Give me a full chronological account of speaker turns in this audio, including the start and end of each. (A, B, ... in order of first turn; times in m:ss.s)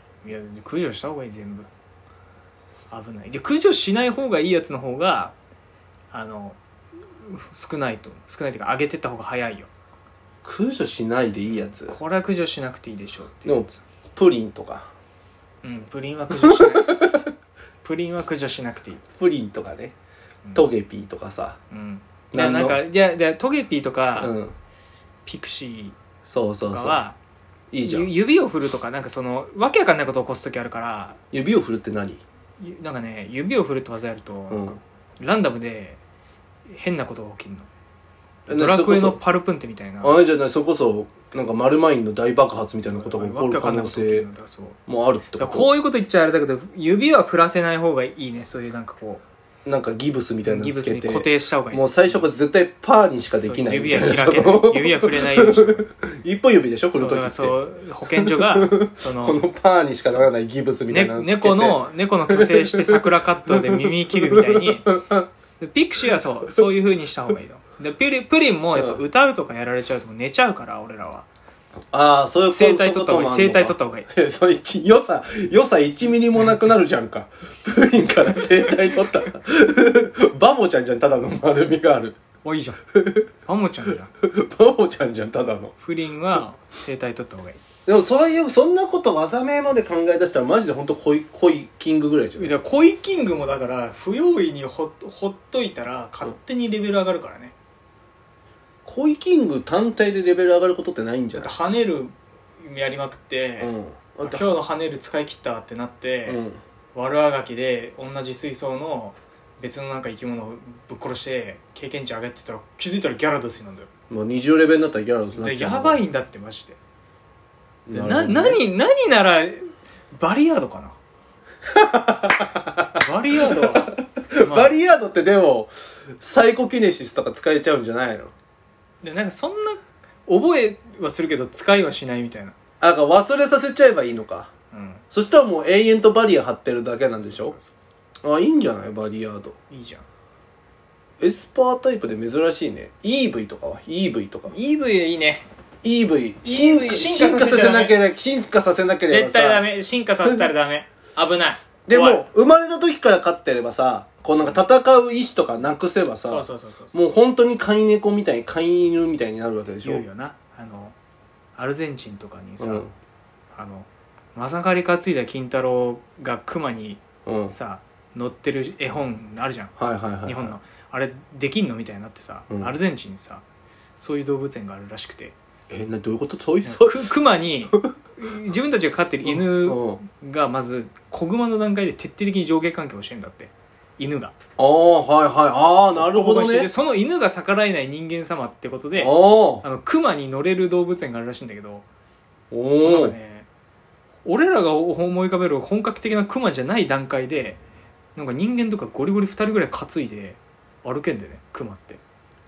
0:00.2-0:01.7 A
0:02.9-0:05.3 A
0:06.1-0:06.6 A
0:07.2-0:09.7 A
0:10.4-0:12.0 B
0:11.8-0:13.8 A
0:13.4-0:14.9 B
0:15.6-0:17.1 A
0:16.3-0:17.3 B
0:17.8-0:19.0 A
0:19.2-0:19.9 B
0:20.5-0:21.6 B
0:21.7-0:24.3 A
0:22.3-0:22.8 B
0:24.2-0:24.5 B
0:25.2-0:26.0 A
0:26.2-0:27.0 B
0:26.6-0:27.2 A
0:27.7-0:28.1 B
0:27.8-0:31.2 A
0:31.3-0:32.2 B
0:32.6-0:36.0 A
0:34.5-0:34.8 B
0:36.7-0:37.7 A
0:38.5-0:39.2 B
0:38.5-0:40.1 A
0:40.0-0:44.3 B
0:42.9-0:44.8 A
0:44.9-0:45.7 B
0:45.3-0:49.2 A
0:49.6-1:05.3 B
0:50.4-0:52.2 A
0:53.4-0:55.8 A
0:56.9-0:59.4 A
1:00.9-1:04.8 A
1:05.6-1:11.3 A
1:11.9-1:22.2 B
1:12.4-1:14.1 A
1:22.4-1:22.8 A
1:23.0-1:23.2 B
1:23.4-1:24.1 A
1:24.2-1:25.7 B
1:25.8-1:27.6 A
1:27.8-1:32.6 B
1:32.4-1:37.5 A
1:38.8-1:41.5 B
1:41.4-1:43.7 A
1:43.6-1:44.5 B
1:44.2-1:46.4 A
1:46.3-1:46.6 B
1:46.9-1:53.9 A
1:54.1-1:56.0 B
1:55.3-1:56.8 A
1:57.9-1:58.6 B
1:57.9-2:00.9 A
2:01.7-2:08.3 B
2:03.0-2:03.9 A
2:04.4-2:04.7 A
2:09.0-2:12.5 A
2:12.8-2:14.5 B
2:14.7-2:15.0 A
2:15.1-2:17.5 B
2:17.0-2:17.8 A
2:18.2-2:19.5 B
2:19.7-2:20.0 A
2:21.2-2:24.5 B
2:24.5-2:25.4 A
2:25.8-2:29.6 B
2:26.4-2:28.0 A
2:29.1-2:32.3 A
2:31.8-2:40.0 B
2:36.2-2:36.9 A
2:39.8-2:40.9 A
2:41.6-2:42.8 A
2:42.6-2:42.9 B
2:43.5-2:53.4 A
2:47.2-2:47.5 B
2:49.8-2:50.5 B
2:54.0-2:55.3 A
2:55.7-2:57.0 B
2:56.6-3:04.3 A
2:59.2-3:00.0 B
3:04.6-3:06.7 B
3:06.0-3:11.8 A
3:08.9-3:09.6 B
3:12.5-3:13.2 B
3:12.8-3:13.5 A
3:14.2-3:17.6 A
3:18.2-3:22.0 A